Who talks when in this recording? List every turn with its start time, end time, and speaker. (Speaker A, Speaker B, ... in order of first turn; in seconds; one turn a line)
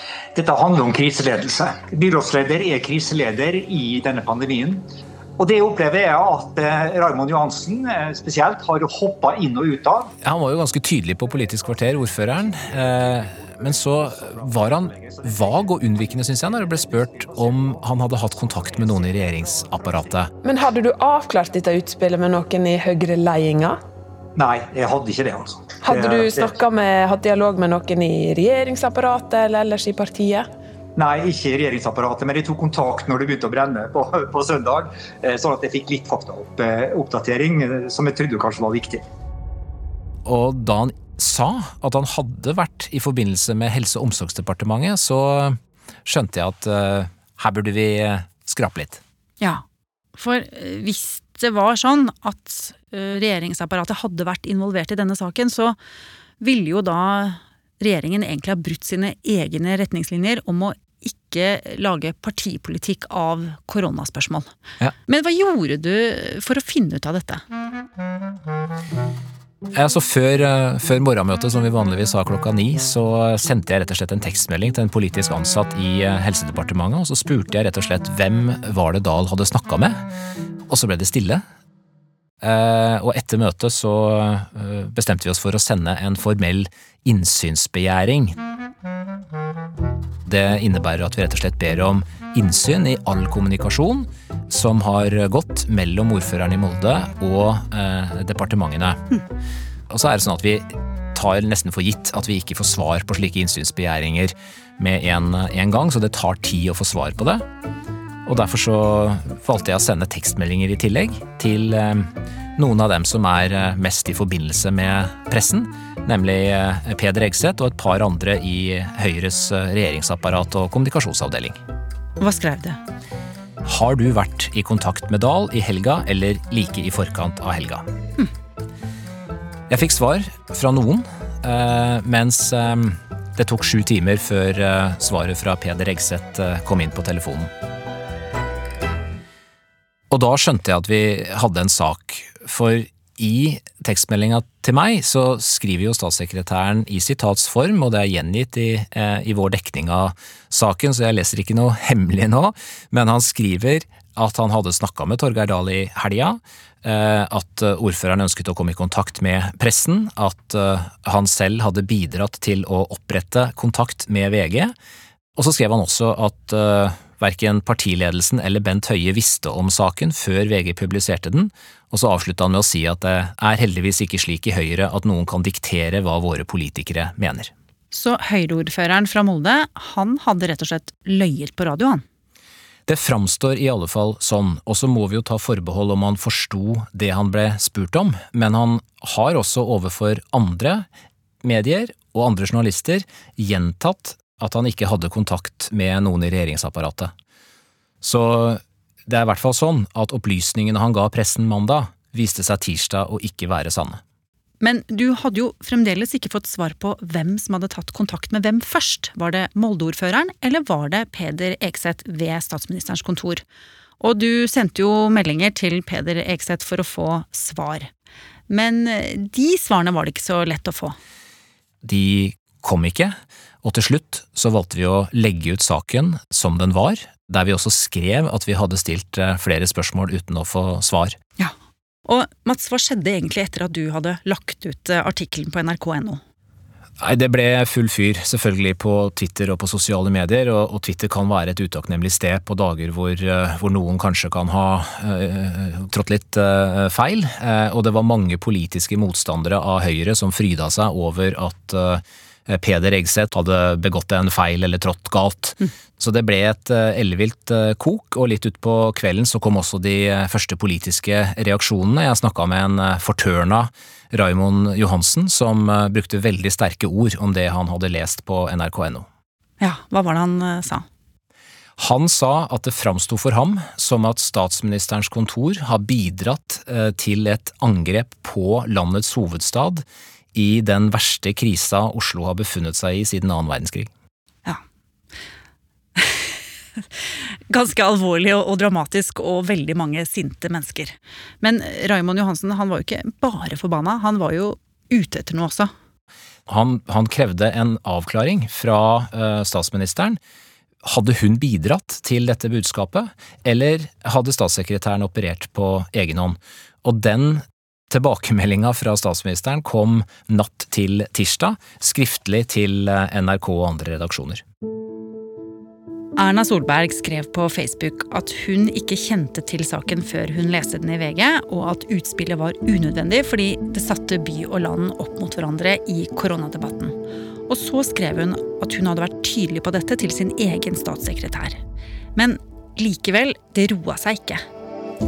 Speaker A: 0.3-4.8
Speaker A: 5.4-10.1
Speaker B: 10.2-20.3
Speaker A: 14.0-20.0
Speaker C: 20.4-23.8
Speaker A: 24.4-26.6
Speaker C: 25.8-30.4
Speaker A: 30.9-39.0
Speaker B: 40.2-49.0
Speaker D: 50.1-55.8
Speaker D: 56.4-64.5
Speaker D: 65.1-67.4
Speaker B: 69.7-80.0
Speaker B: 80.7-81.4
Speaker B: 82.4-88.3
Speaker B: 90.2-99.0
Speaker B: 99.9-107.4
Speaker B: 108.2-121.6
Speaker D: 122.2-122.8
Speaker B: 123.6-127.8
Speaker B: 129.7-137.5
Speaker B: 140.1-164.7
Speaker B: 165.3-177.5
Speaker D: 177.9-182.0
Speaker B: 182.9-190.8
Speaker B: 191.4-197.1
Speaker B: 198.0-204.0
Speaker D: 204.6-213.4
Speaker D: 214.0-217.9
Speaker D: 218.5-220.9
Speaker B: 221.8-231.2
Speaker D: 232.1-236.2
Speaker B: 237.0-269.1
Speaker D: 269.6-270.8
Speaker B: 271.8-283.9
Speaker D: 285.9-286.8
Speaker D: 287.5-295.7
Speaker B: 296.5-300.2
Speaker B: 300.8-314.4
Speaker D: 316.2-326.9
Speaker D: 327.5-331.6
Speaker D: 332.1-334.4